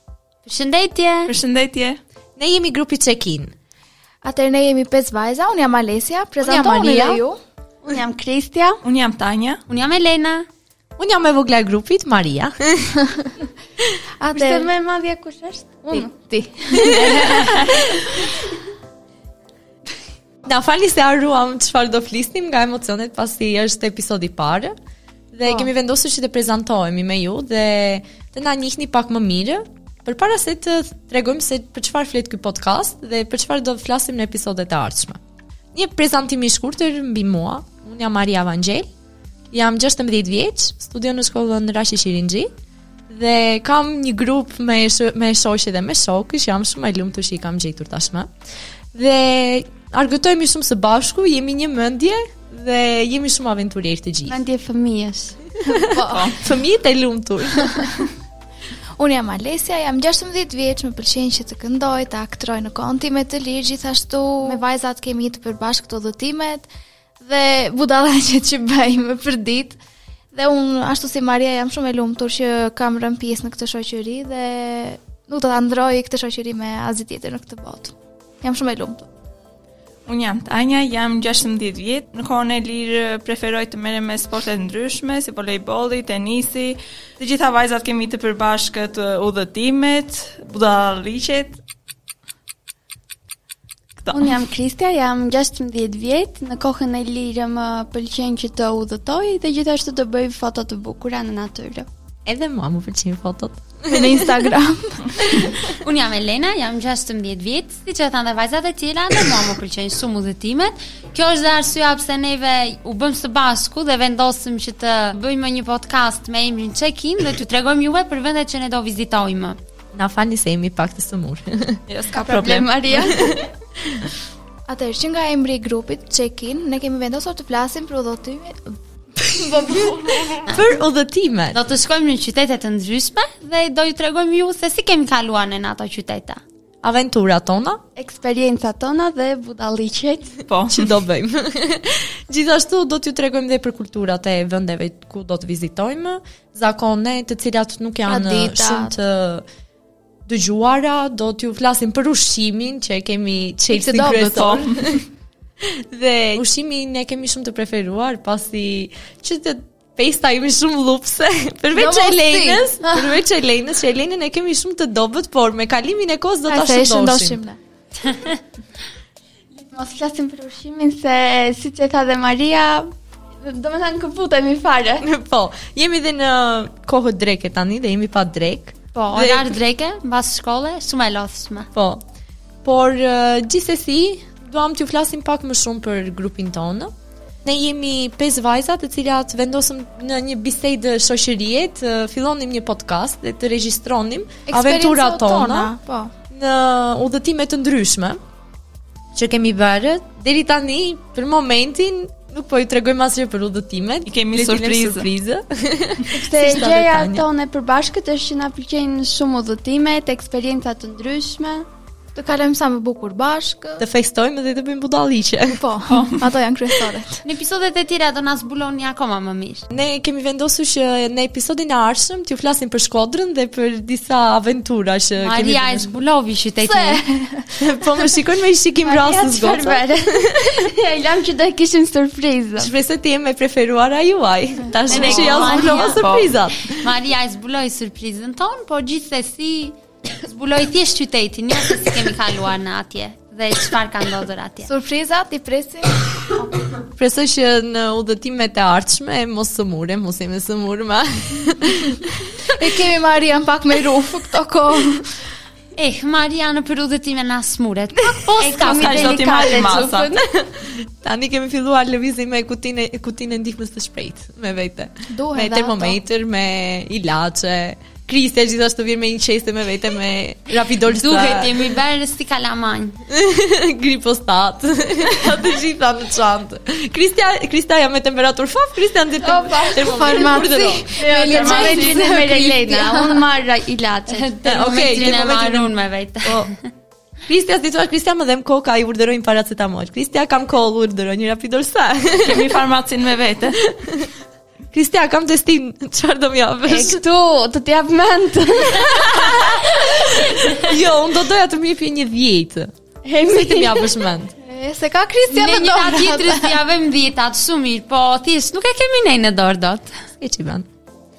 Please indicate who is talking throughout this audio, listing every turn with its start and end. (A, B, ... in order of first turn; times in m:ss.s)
0:00.4-0:01.3 A
0:01.3-0:02.0 B
0:02.4-0:03.5 C
0:04.2-0:07.4 D
0:06.5-0:07.2 E
0:07.8-0:08.8 E
0:08.8-0:09.6 B
0:09.7-0:10.4 A
0:11.0-0:13.0 C
0:14.2-0:14.7 D
0:14.3-0:16.1 E
0:15.9-0:17.3 D
0:16.7-0:17.4 C
0:16.8-0:17.8 E
0:20.4-0:24.7 C
0:25.3-0:35.2 C
0:35.7-0:38.9 C
0:39.5-0:42.5 C
0:43.1-0:48.3 C
0:48.9-0:54.4 C
0:54.3-0:55.4 E
0:55.6-0:57.9 C
0:55.9-0:56.3 D
0:56.1-0:56.4 B
0:59.0-1:06.7 D
1:07.2-1:09.8 D
1:10.3-1:19.1 D
1:20.1-1:31.6 B
1:34.0-1:34.4 B
1:34.1-1:41.9 E
1:42.2-1:44.4 C
1:43.9-1:45.3 D
1:45.6-1:59.6 A
1:59.9-2:01.8 C
2:01.9-2:02.8 B
2:02.1-2:03.4 E
2:04.7-2:08.7 D
2:09.3-2:10.1 D
2:10.4-2:11.6 C
2:11.5-2:16.4 A
2:16.8-2:17.8 C
2:18.0-2:20.4 E
2:20.4-2:20.9 B
2:20.7-2:29.4 C
2:28.0-2:28.9 D
2:30.3-2:35.0 C
2:33.7-2:34.4 D
2:34.4-2:35.0 B
2:35.6-2:47.4 C
2:41.7-2:42.7 D
2:46.5-2:47.6 D
2:49.7-2:52.9 E
2:53.4-2:55.1 E
2:55.0-2:59.6 C
2:58.9-3:01.7 A
3:01.7-3:02.0 C
3:02.6-3:06.9 C
3:07.4-3:15.7 C
3:14.5-3:16.1 D
3:16.3-3:18.2 C
3:19.1-3:27.3 C
3:24.0-3:25.1 B
3:26.2-3:31.7 E
3:26.4-3:26.7 D
3:32.1-3:33.8 D
3:33.8-3:35.6 C
3:35.5-3:37.2 D
3:35.9-3:36.3 B
3:37.2-3:39.6 A
3:39.7-3:46.0 C
3:45.2-3:47.0 A
3:46.6-3:47.6 D
3:47.6-3:50.6 C
3:48.8-3:52.7 E
3:52.6-3:56.9 C
3:54.9-3:55.8 E
3:54.9-3:56.0 A
3:55.0-3:56.3 B
3:56.7-4:04.7 A
4:04.7-4:06.5 D
4:07.0-4:12.4 C
4:12.5-4:15.0 D
4:15.7-4:19.2 A
4:18.1-4:18.4 C
4:18.4-4:20.3 E
4:18.6-4:20.2 B
4:20.6-4:31.6 C
4:25.1-4:26.0 D
4:30.8-4:33.0 A
4:33.1-4:40.9 C
4:39.2-4:39.9 E
4:39.8-4:43.2 D
4:41.0-4:44.3 E
4:41.2-4:42.1 B
4:44.1-4:46.5 A
4:44.4-4:45.7 C
4:46.2-4:46.5 C
4:47.3-4:52.5 C
4:52.2-4:53.6 B
4:53.6-4:54.1 C
4:54.7-4:57.0 C
4:56.7-4:59.5 E
4:59.2-5:02.7 C
5:03.0-5:04.0 E
5:03.3-5:04.3 C
5:04.4-5:06.6 D
5:05.3-5:10.0 A
5:10.2-5:10.7 C